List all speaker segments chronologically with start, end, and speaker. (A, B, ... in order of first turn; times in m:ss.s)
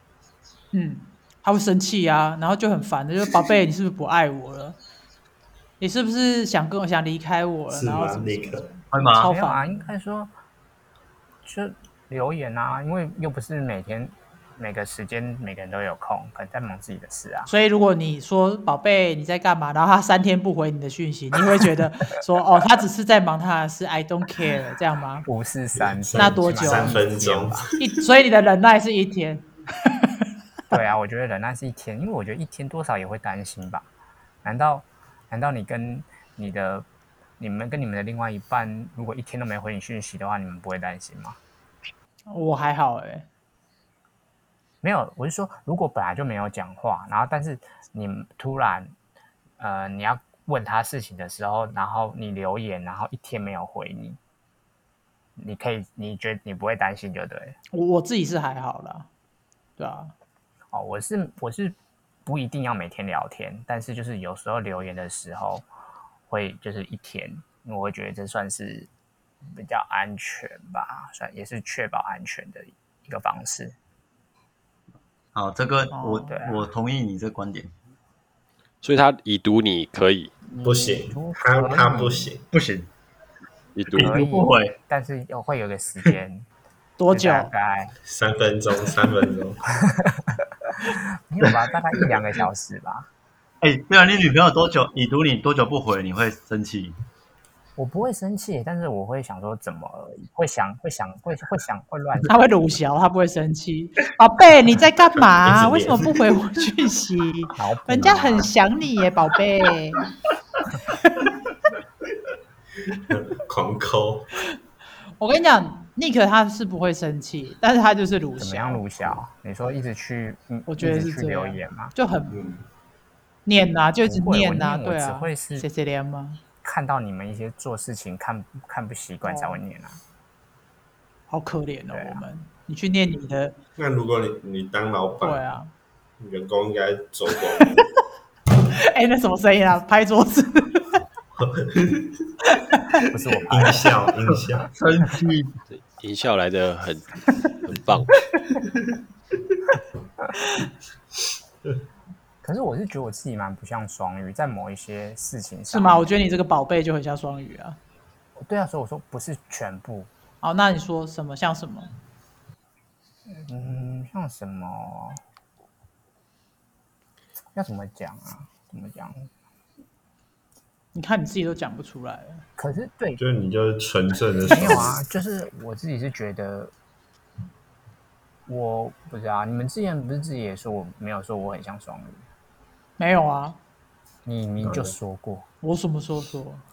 0:00.7-0:04.8 A
0:05.8-0:09.9 A
0:07.7-0:08.7 B
0:08.9-0:09.3 C
0:09.2-0:10.3 D
0:11.4-0:17.5 D
0:17.5-0:25.2 A
0:25.2-0:27.7 D
0:25.8-0:27.8 B
0:26.2-0:26.9 A
0:27.8-0:29.5 A
0:30.7-0:33.9 D
0:34.4-0:36.8 D
0:37.4-0:41.4 D
0:42.3-0:43.3 A
0:44.8-0:48.9 D
0:49.6-0:54.2 D
0:55.4-0:57.6 D
0:57.7-0:59.1 A
0:59.8-1:00.1 A
1:00.7-1:05.6 D
1:06.3-1:08.9 D
1:09.4-1:13.8 D
1:15.3-1:17.7 C
1:15.9-1:16.3 A
1:16.3-1:16.7 D
1:18.8-1:20.3 E
1:20.5-1:22.3 D
1:20.6-1:22.5 B
1:22.5-1:22.9 C
1:23.8-1:24.2 E
1:23.9-1:24.8 C
1:24.0-1:26.4 D
1:27.0-1:27.5 A
1:27.1-1:27.9 D
1:28.1-1:29.6 B
1:29.8-1:33.1 D
1:33.6-1:37.0 C
1:37.8-1:42.4 D
1:42.3-1:50.0 A
1:45.4-1:46.4 B
1:47.6-1:48.5 D
1:53.0-1:54.3 B
1:55.2-1:58.8 A
1:58.4-2:01.9 D
2:00.7-2:02.3 A
2:02.3-2:02.6 B
2:03.4-2:06.4 A
2:04.0-2:05.6 D
2:06.6-2:10.0 D
2:09.2-2:09.6 A
2:11.3-2:13.6 A
2:11.9-2:12.2 D
2:13.8-2:15.5 B
2:15.2-2:15.7 A
2:16.2-2:17.8 B
2:18.7-2:20.9 A
2:21.4-2:22.2 B
2:22.5-2:23.0 A
2:23.1-2:23.9 D
2:23.5-2:24.7 B
2:24.3-2:25.6 C
2:25.7-2:28.2 E
2:32.4-2:36.1 D
2:35.7-2:37.8 A
2:38.4-2:40.1 D
2:40.4-2:41.9 A
2:43.3-2:45.2 D
2:47.5-2:49.3 D
2:50.9-2:52.4 A
2:52.6-2:53.2 D
2:53.2-2:55.0 B
2:54.5-2:56.7 D
2:58.5-3:02.2 D
3:03.0-3:03.6 A
3:04.2-3:05.5 D
3:04.6-3:04.9 B
3:05.6-3:06.6 A